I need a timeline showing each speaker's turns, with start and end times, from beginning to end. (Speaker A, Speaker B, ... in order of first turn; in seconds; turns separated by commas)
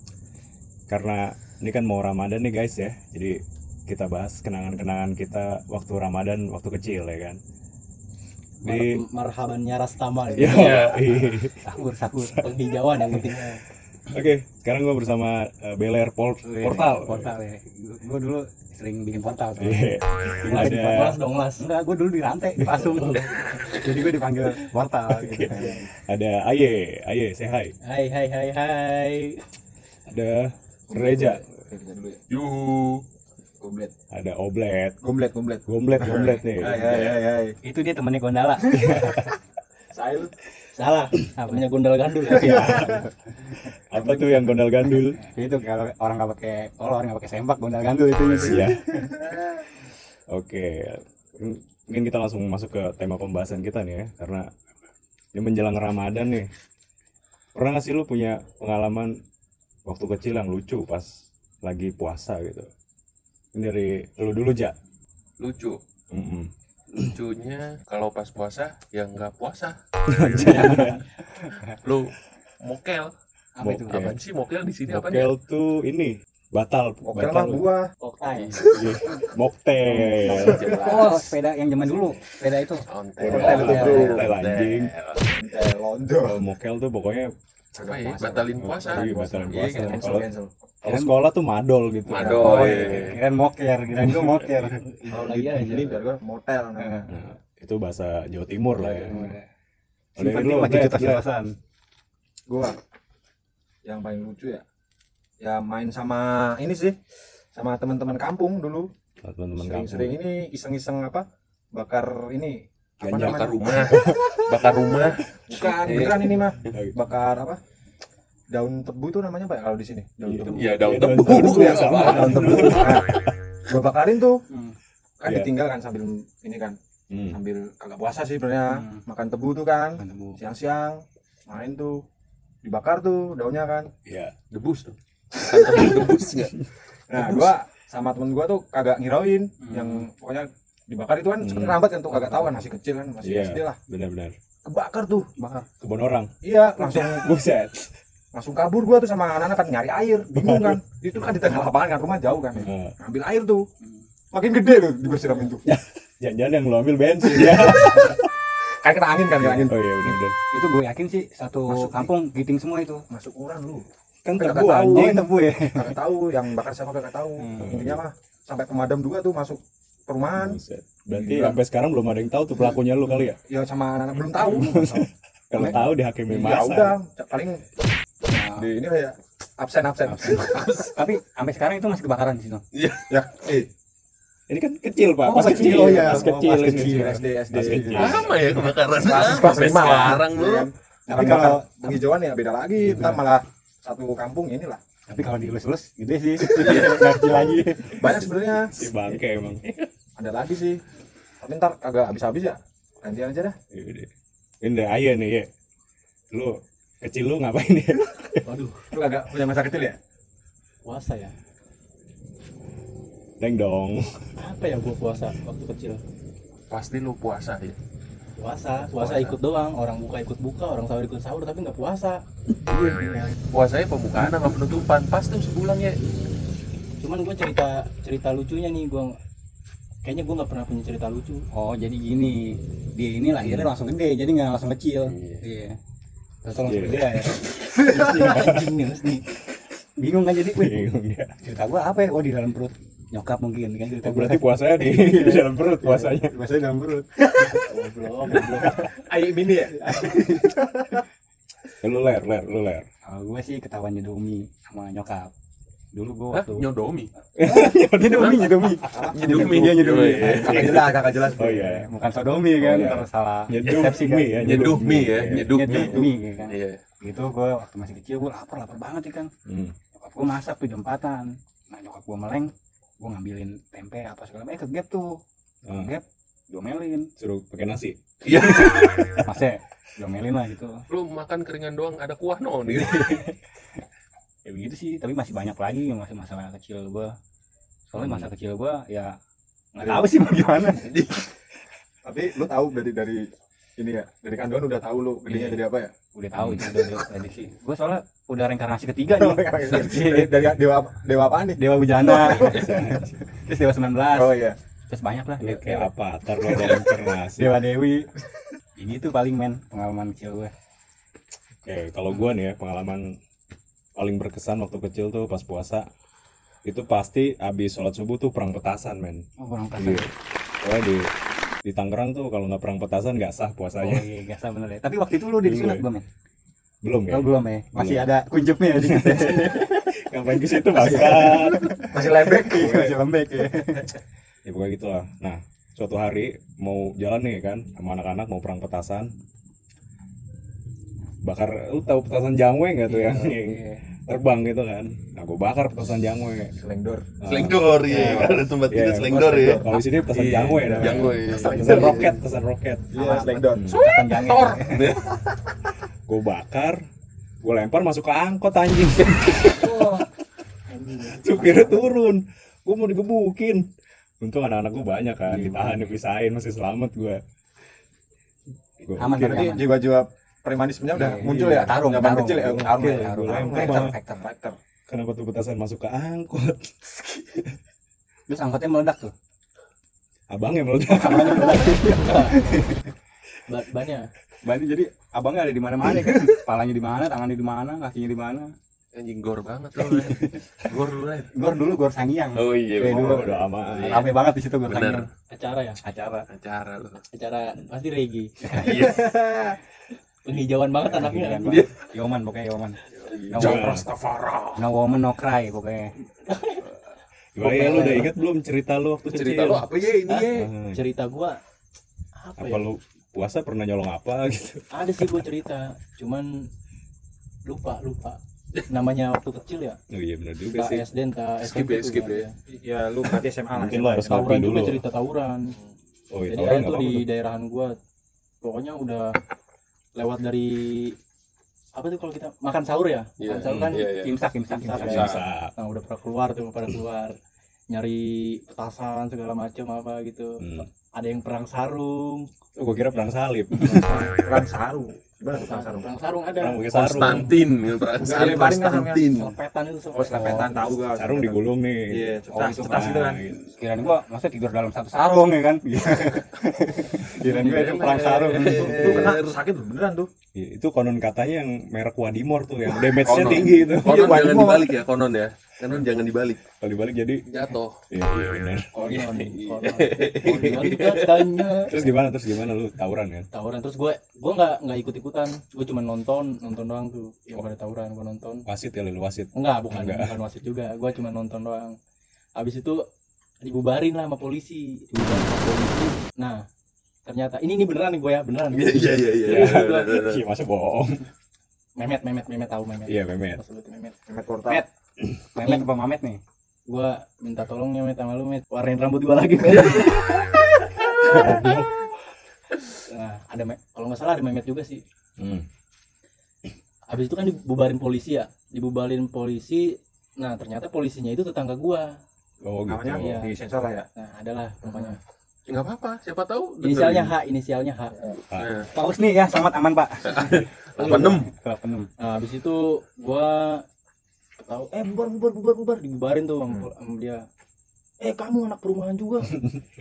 Speaker A: 0.9-7.4, Speaker B: 8.6-10.9, Speaker A: 8.6-9.0, Speaker A: 10.3-12.4, Speaker C: 10.4-11.1, Speaker D: 11.6-12.4, Speaker B: 12.4-13.6, Speaker A: 13.1-13.3, Speaker A: 14.1-17.3, Speaker D: 16.4-19.8, Speaker A: 19.6-21.2, Speaker B: 20.4-21.7, Speaker D: 21.6-25.8, Speaker A: 22.6-23.1, Speaker A: 25.1-27.7, Speaker E: 25.5-25.8, Speaker B: 27.9-29.4, Speaker A: 30.1-31.4, Speaker E: 30.9-32.2, Speaker C: 32.3-33.0, Speaker E: 33.6-33.9, Speaker A: 34.1-35.0, Speaker E: 35.0-37.6, Speaker A: 35.7-37.2, Speaker D: 37.6-39.3, Speaker A: 38.8-39.2, Speaker E: 39.9-40.3, Speaker B: 40.7-42.9, Speaker D: 41.4-41.7, Speaker D: 42.2-43.1, Speaker A: 42.3-43.1, Speaker E: 42.5-43.0, Speaker A: 43.9-45.2, Speaker E: 43.9-44.5, Speaker D: 45.2-49.1, Speaker A: 48.4-48.8, Speaker E: 49.1-49.4, Speaker A: 50.3-54.5, Speaker A: 55.4-56.5, Speaker A: 57.5-59.2, Speaker A: 59.9-62.7, Speaker A: 63.5-64.8, Speaker C: 65.4-65.8, Speaker A: 66.1-67.2, Speaker C: 67.0-69.8, Speaker A: 70.1-71.0, Speaker D: 70.4-71.8, Speaker C: 70.4-70.8, Speaker C: 71.7-73.1, Speaker D: 73.6-74.1, Speaker A: 73.6-74.2, Speaker C: 73.9-75.3, Speaker A: 74.9-77.7, Speaker E: 77.1-77.9, Speaker B: 78.0-78.6, Speaker C: 78.3-78.8, Speaker A: 78.7-80.7, Speaker D: 80.0-84.1, Speaker E: 80.1-81.0, Speaker C: 80.3-81.3, Speaker C: 82.9-85.3, Speaker A: 83.2-84.9, Speaker E: 83.2-84.3, Speaker B: 83.3-84.1, Speaker E: 85.3-86.4, Speaker A: 86.2-87.3, Speaker E: 87.8-90.5, Speaker C: 87.8-90.3, Speaker A: 88.6-90.3, Speaker A: 90.8-93.2, Speaker D: 90.9-91.1, Speaker C: 92.1-93.2, Speaker E: 92.2-93.1, Speaker D: 92.4-94.8, Speaker B: 94.9-96.0, Speaker E: 95.1-97.1, Speaker D: 96.8-97.1, Speaker A: 97.1-99.3, Speaker D: 98.8-99.5, Speaker D: 100.2-101.6, Speaker A: 100.2-101.2, Speaker E: 102.5-102.8, Speaker E: 103.8-104.6, Speaker E: 105.4-107.0, Speaker E: 107.5-108.9, Speaker A: 109.2-110.2, Speaker E: 109.6-114.4, Speaker C: 113.0-116.5, Speaker A: 113.1-114.3, Speaker E: 115.5-117.6, Speaker A: 116.7-117.0, Speaker E: 118.5-124.4, Speaker A: 120.2-123.0, Speaker C: 120.5-123.1, Speaker D: 124.5-124.8, Speaker E: 125.2-126.8, Speaker A: 125.2-125.5, Speaker A: 127.1-127.4, Speaker E: 127.3-132.0, Speaker D: 128.7-129.0, Speaker D: 130.0-130.4, Speaker E: 132.6-133.9, Speaker A: 134.1-134.3, Speaker C: 134.5-136.6, Speaker E: 137.1-143.8, Speaker D: 139.6-140.1, Speaker A: 141.4-141.8, Speaker A: 143.2-144.3, Speaker E: 144.7-145.3, Speaker D: 145.4-145.7, Speaker A: 145.8-147.9, Speaker E: 146.4-147.3, Speaker E: 148.3-153.7, Speaker A: 150.3-150.8, Speaker A: 152.6-152.9, Speaker E: 154.3-155.7, Speaker A: 155.6-158.3, Speaker E: 157.2-158.2, Speaker E: 158.8-159.8, Speaker A: 159.3-160.4, Speaker D: 160.5-163.0, Speaker E: 161.7-162.1, Speaker E: 163.1-170.6, Speaker A: 164.2-165.3, Speaker D: 164.9-166.0, Speaker D: 167.4-167.7, Speaker A: 167.6-168.0, Speaker A: 170.3-173.4, Speaker E: 171.1-171.6, Speaker E: 173.3-175.1, Speaker D: 174.4-175.0, Speaker A: 174.5-177.0, Speaker E: 175.6-177.6, Speaker D: 178.3-178.7, Speaker E: 178.5-180.9, Speaker D: 180.1-182.6, Speaker C: 180.3-180.9, Speaker C: 182.7-183.1, Speaker E: 183.1-183.7, Speaker A: 184.5-188.4, Speaker E: 185.3-188.3, Speaker D: 185.5-187.2, Speaker C: 187.9-190.7, Speaker E: 189.0-194.8, Speaker D: 191.1-191.9, Speaker D: 192.8-193.2, Speaker D: 195.1-198.2, Speaker C: 196.5-197.1, Speaker A: 197.3-197.6, Speaker E: 197.9-198.8, Speaker A: 198.7-199.6, Speaker E: 200.2-200.8, Speaker E: 201.4-203.6, Speaker A: 203.7-204.1, Speaker A: 204.6-205.5, Speaker A: 206.3-208.4, Speaker B: 208.4-208.8, Speaker E: 208.9-210.0, Speaker B: 210.9-211.3, Speaker A: 213.4-214.3, Speaker B: 214.4-216.0, Speaker C: 216.7-217.8, Speaker B: 218.4-223.3, Speaker C: 218.9-219.3, Speaker C: 223.5-226.0, Speaker B: 227.0-229.2, Speaker B: 230.0-231.4, Speaker D: 231.5-235.8, Speaker A: 233.4-233.7, Speaker C: 235.1-235.4, Speaker D: 236.4-238.1, Speaker A: 236.7-237.2, Speaker B: 237.8-239.2, Speaker A: 238.2-238.6, Speaker D: 240.0-240.9, Speaker A: 240.6-241.4, Speaker D: 241.4-247.7, Speaker A: 244.0-246.4, Speaker B: 247.6-248.9, Speaker D: 248.6-248.9, Speaker E: 248.9-251.0, Speaker D: 249.9-250.6, Speaker A: 251.8-252.9, Speaker D: 253.1-255.3, Speaker D: 255.9-256.7, Speaker C: 256.3-257.1, Speaker A: 257.4-258.8, Speaker D: 257.5-264.7, Speaker E: 258.9-261.6, Speaker C: 259.1-260.8, Speaker A: 260.4-261.9, Speaker A: 262.6-265.7, Speaker C: 263.6-266.8, Speaker D: 265.3-269.3, Speaker E: 265.7-266.1, Speaker A: 269.5-269.8, Speaker D: 269.9-277.1, Speaker A: 275.7-275.9, Speaker A: 277.2-278.0, Speaker C: 278.2-279.2, Speaker D: 278.3-280.8, Speaker C: 280.9-283.2, Speaker D: 282.7-283.4, Speaker D: 284.4-287.1, Speaker D: 287.9-289.2, Speaker A: 288.0-288.3, Speaker D: 289.8-290.9, Speaker E: 289.8-290.1, Speaker C: 290.8-291.2, Speaker E: 292.1-295.9, Speaker D: 295.3-295.6, Speaker D: 296.1-300.5, Speaker A: 296.4-296.8, Speaker E: 299.2-302.8, Speaker D: 301.6-305.9, Speaker A: 302.2-303.1, Speaker E: 304.1-304.6, Speaker A: 305.4-307.6, Speaker D: 306.4-308.1, Speaker D: 308.8-310.5, Speaker A: 311.6-313.2, Speaker A: 314.0-315.9, Speaker A: 316.6-319.2, Speaker D: 319.4-320.1, Speaker A: 319.8-320.1, Speaker A: 320.6-321.1, Speaker A: 321.6-324.1, Speaker D: 323.8-326.1, Speaker A: 325.4-325.9, Speaker A: 326.8-328.1, Speaker D: 327.1-329.9, Speaker A: 328.8-331.8, Speaker E: 330.8-333.8, Speaker D: 330.8-333.9, Speaker A: 332.6-332.9, Speaker A: 334.4-339.1, Speaker A: 341.2-346.6, Speaker D: 342.9-343.8, Speaker E: 346.6-347.1, Speaker A: 347.2-352.9, Speaker C: 347.2-352.2, Speaker E: 348.0-348.3, Speaker E: 349.1-349.7, Speaker E: 350.8-352.1, Speaker E: 352.9-353.8, Speaker D: 352.9-355.0, Speaker A: 353.5-353.8, Speaker C: 353.7-355.1, Speaker A: 356.1-356.8, Speaker A: 357.4-360.0, Speaker E: 359.6-360.0, Speaker B: 360.7-361.7, Speaker A: 361.1-363.7, Speaker A: 364.2-367.2, Speaker A: 368.8-369.5, Speaker D: 369.0-369.8, Speaker E: 369.1-374.6, Speaker D: 370.9-374.2, Speaker A: 371.2-371.7, Speaker A: 372.6-374.0, Speaker A: 374.9-377.6, Speaker D: 378.3-379.1, Speaker A: 380.3-381.8, Speaker D: 380.9-382.9, Speaker B: 381.9-382.4, Speaker B: 383.5-384.1, Speaker D: 384.4-388.5, Speaker C: 388.9-391.3, Speaker D: 389.8-390.7, Speaker D: 391.3-393.2, Speaker C: 392.4-394.1, Speaker E: 392.8-393.3, Speaker A: 392.9-394.1, Speaker D: 393.9-395.1, Speaker C: 394.6-395.1, Speaker B: 395.3-395.8, Speaker D: 395.8-396.3, Speaker C: 396.3-397.0, Speaker B: 397.1-398.5, Speaker D: 398.4-399.0, Speaker C: 398.6-399.0, Speaker E: 398.6-399.6, Speaker B: 400.2-401.6, Speaker D: 400.9-403.8, Speaker C: 401.4-401.8, Speaker C: 403.0-404.6, Speaker A: 403.4-403.9, Speaker D: 404.6-405.9, Speaker B: 406.3-406.7, Speaker A: 407.4-409.7, Speaker B: 407.4-408.1, Speaker C: 409.1-410.4, Speaker B: 410.1-411.4, Speaker A: 410.3-410.8, Speaker B: 412.2-412.7, Speaker A: 412.4-414.7, Speaker B: 414.7-416.5, Speaker B: 417.5-419.8, Speaker A: 419.9-420.8, Speaker B: 420.5-422.4, Speaker C: 421.4-422.3, Speaker E: 422.5-424.3, Speaker A: 423.5-424.8, Speaker B: 424.1-425.6, Speaker A: 426.1-427.1, Speaker B: 426.3-427.8, Speaker B: 428.4-429.2, Speaker B: 429.9-431.0, Speaker B: 431.8-433.9, Speaker C: 433.2-434.2, Speaker A: 433.5-433.8, Speaker D: 433.9-435.1, Speaker B: 434.5-437.2, Speaker A: 434.7-435.5, Speaker C: 434.8-435.2, Speaker B: 437.7-442.3, Speaker A: 440.4-440.7, Speaker A: 442.6-443.9, Speaker E: 443.7-445.9, Speaker B: 445.3-447.2, Speaker A: 446.4-447.3, Speaker C: 446.7-449.3, Speaker E: 448.0-449.1, Speaker B: 449.1-450.6, Speaker E: 449.9-453.2, Speaker D: 450.1-450.5, Speaker A: 450.9-453.5, Speaker D: 452.4-452.9, Speaker D: 453.5-459.1, Speaker C: 457.2-459.4, Speaker B: 457.4-458.6, Speaker E: 458.5-460.1, Speaker A: 460.4-464.1, Speaker C: 462.9-466.4, Speaker E: 463.1-464.8, Speaker A: 466.6-467.2, Speaker C: 467.3-467.8, Speaker A: 467.9-469.2, Speaker B: 468.7-471.8, Speaker C: 469.2-471.6, Speaker A: 471.7-473.3, Speaker B: 473.3-478.5, Speaker A: 478.5-480.2, Speaker B: 479.3-481.8, Speaker B: 482.4-482.9, Speaker B: 483.4-486.4, Speaker D: 484.9-485.4, Speaker B: 487.1-489.9, Speaker C: 488.5-490.2, Speaker A: 489.2-491.1, Speaker B: 491.8-493.9, Speaker A: 492.9-493.4, Speaker E: 494.1-494.6, Speaker D: 495.3-496.2, Speaker B: 496.7-501.7, Speaker A: 501.1-501.7, Speaker B: 502.9-504.8, Speaker A: 505.2-505.5, Speaker B: 506.9-511.9, Speaker A: 512.4-513.2, Speaker E: 512.7-513.9, Speaker B: 513.0-513.3, Speaker B: 514.0-515.0, Speaker E: 514.6-515.0, Speaker C: 515.5-517.1, Speaker B: 516.6-518.1, Speaker C: 518.3-518.7, Speaker D: 518.7-521.9, Speaker C: 520.0-521.3, Speaker B: 520.8-521.2, Speaker B: 522.0-523.6, Speaker B: 524.4-527.2, Speaker B: 528.0-529.4